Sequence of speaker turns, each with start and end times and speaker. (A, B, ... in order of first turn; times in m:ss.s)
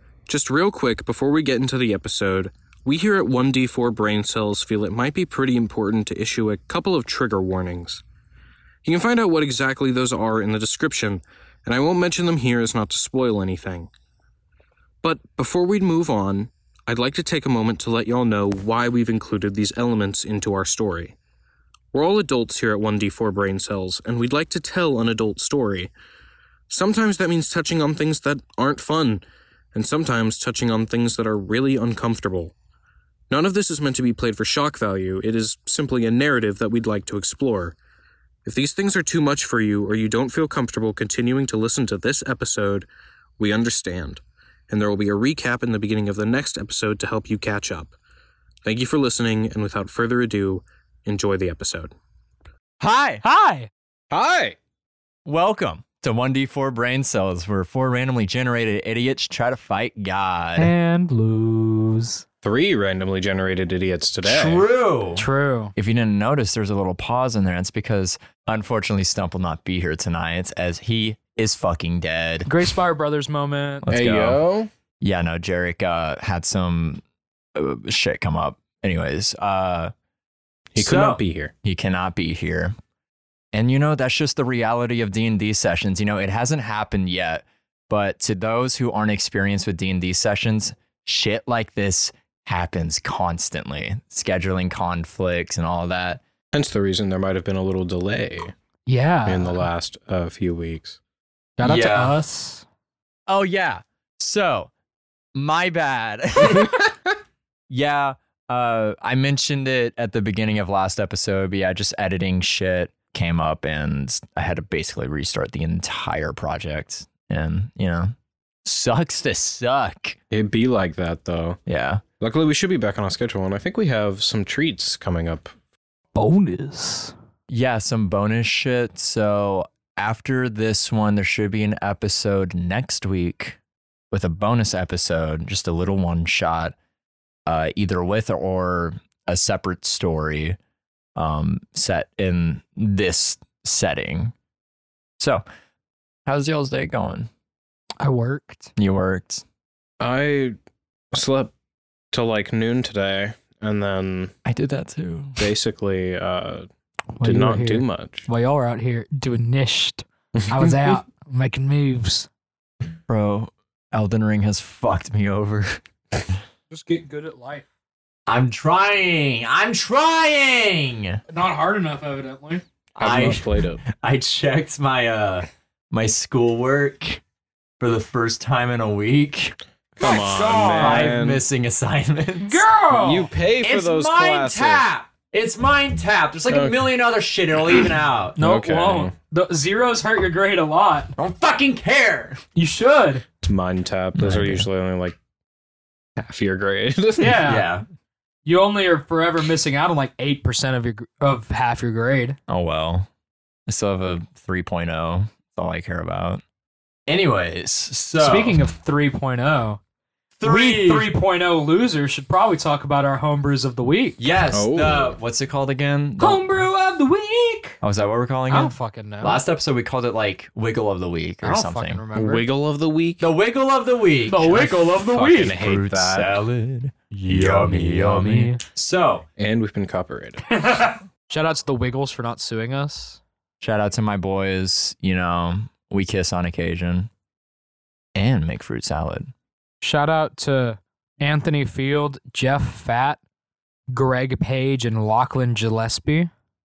0:00.3-0:08.0 A
0:08.8-0:13.9 A
0:15.0-0:21.2 A
0:21.9-0:25.9 A
0:26.7-0:29.2 A
0:29.7-0:32.5 A
0:33.3-0:37.8 A
0:38.4-0:42.9 A
0:43.4-0:47.9 A
0:48.6-0:51.9 A
0:52.8-0:53.2 B
0:53.2-0:53.7 C
0:54.1-0:54.6 A
0:55.2-1:00.7 B
1:00.6-1:02.2 C
1:02.4-1:04.7 A
1:04.2-1:05.2 B
1:05.2-1:05.7 C
1:05.8-1:12.5 B
1:12.5-1:13.9 C
1:13.8-1:14.4 B
1:13.9-1:14.7 A
1:15.0-1:17.0 B
1:17.6-1:19.9 B
1:20.7-1:21.5 A
1:20.8-1:22.8 B
1:23.5-1:36.2 B
1:36.5-1:38.5 A
1:38.9-1:39.6 C
1:39.3-1:41.0 A
1:41.6-1:42.6 C
1:41.6-1:42.2 B
1:43.3-1:44.7 B
1:45.4-1:46.9 B
1:46.5-1:46.8 A
1:47.7-1:58.1 B
1:58.6-2:00.2 B
2:00.3-2:01.6 A
2:01.7-2:02.0 B
2:02.2-2:05.5 A
2:06.2-2:07.1 C
2:07.5-2:13.6 B
2:14.1-2:16.8 B
2:17.5-2:20.6 B
2:21.2-2:24.3 B
2:26.3-2:27.3 B
2:28.0-2:28.7 C
2:28.8-2:29.4 B
2:30.0-2:30.6 A
2:31.1-2:31.5 A
2:32.1-2:34.3 A
2:34.4-2:35.5 B
2:35.4-2:36.7 A
2:37.2-2:42.3 C
2:37.2-2:38.3 A
2:40.4-2:40.9 A
2:43.1-2:45.8 B
2:46.7-2:47.7 C
2:48.3-2:51.2 B
2:51.3-2:52.6 C
2:53.0-2:57.2 B
2:53.0-2:53.8 A
2:57.8-3:02.7 B
3:00.0-3:01.4 A
3:00.0-3:01.1 C
3:02.4-3:03.3 C
3:02.9-3:04.9 A
3:03.6-3:08.4 B
3:06.5-3:06.8 A
3:08.4-3:09.1 A
3:08.4-3:11.1 C
3:11.2-3:12.4 B
3:12.6-3:13.2 C
3:13.4-3:15.2 A
3:14.2-3:14.7 B
3:16.2-3:17.5 A
3:17.2-3:17.7 C
3:17.5-3:17.8 B
3:18.4-3:22.4 C
3:22.5-3:23.1 B
3:23.7-3:26.4 B
3:27.1-3:28.6 B
3:28.2-3:29.8 C
3:30.4-3:31.1 B
3:30.4-3:34.2 C
3:34.2-3:36.6 B
3:34.5-3:35.1 A
3:36.2-3:37.8 C
3:37.8-3:42.0 B
3:38.5-3:39.4 C
3:41.4-3:42.4 C
3:42.1-3:43.3 A
3:43.2-3:44.7 B
3:44.3-3:45.6 C
3:44.5-3:46.4 A
3:45.4-3:49.2 B
3:47.1-3:48.6 C
3:49.4-3:50.4 A
3:50.5-3:53.2 C
3:53.6-3:57.1 B
3:58.2-3:59.3 B
3:59.8-4:03.2 C
4:03.9-4:06.3 C